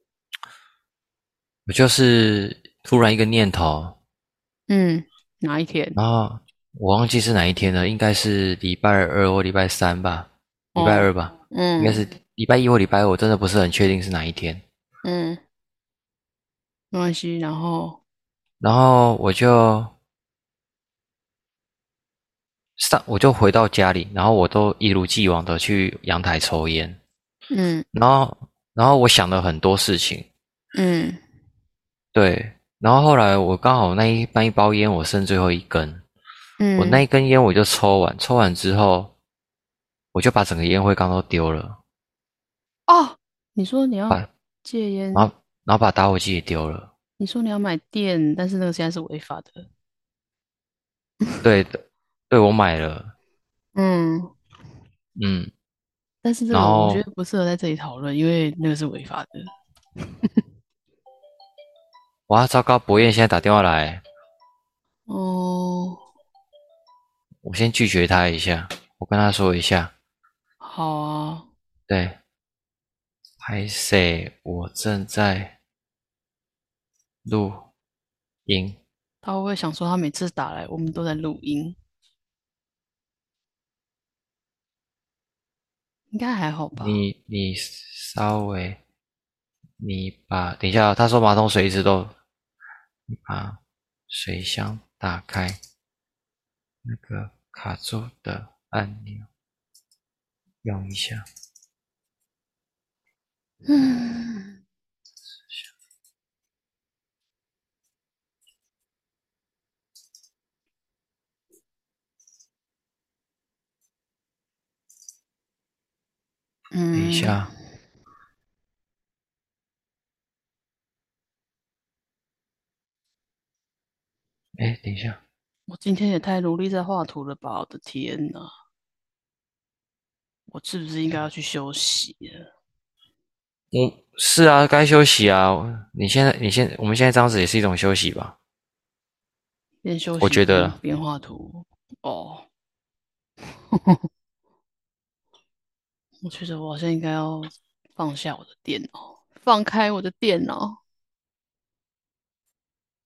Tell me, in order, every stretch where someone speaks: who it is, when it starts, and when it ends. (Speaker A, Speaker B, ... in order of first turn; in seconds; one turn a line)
Speaker A: 1.7-4.0
Speaker B: 4.7-6.0
Speaker A: 6.0-14.6
Speaker B: 10.7-12.1
Speaker B: 15.0-15.4
Speaker B: 16.9-18.0
Speaker A: 18.6-19.9
Speaker A: 22.8-27.0
Speaker B: 27.5-27.9
Speaker A: 27.9-30.3
Speaker B: 30.7-31.2
Speaker A: 32.1-36.0
Speaker B: 36.6-37.0
Speaker A: 36.8-39.1
Speaker A: 40.1-41.8
Speaker B: 42.9-45.3
Speaker A: 45.1-46.9
Speaker B: 47.2-49.6
Speaker A: 51.4-53.1
Speaker B: 53.7-54.3
Speaker A: 55.2-55.5
Speaker B: 56.2-59.5
Speaker A: 56.5-57.0
Speaker A: 62.3-64.0
Speaker B: 65.1-66.0
Speaker A: 67.4-69.9
Speaker B: 70.6-71.5
Speaker A: 71.9-72.2
Speaker A: 73.4-75.5
Speaker A: 77.2-77.7
Speaker A: 78.5-78.8
Speaker B: 79.2-81.8
Speaker B: 86.1-87.0
Speaker A: 86.8-88.8
Speaker A: 89.8-92.1
Speaker A: 93.1-93.6
Speaker A: 94.1-95.6
Speaker A: 96.8-99.3
Speaker A: 100.6-101.2
Speaker B: 103.7-104.6
Speaker B: 116.7-117.4
Speaker A: 116.9-117.5
Speaker A: 124.6-125.2
Speaker B: 125.7-128.5
Speaker B: 130.5-132.4
Speaker A: 133.7-138.3
Speaker B: 139.8-142.4
Speaker A: 140.2-140.8
Speaker B: 143.7-144.0
Speaker B: 146.2-150.8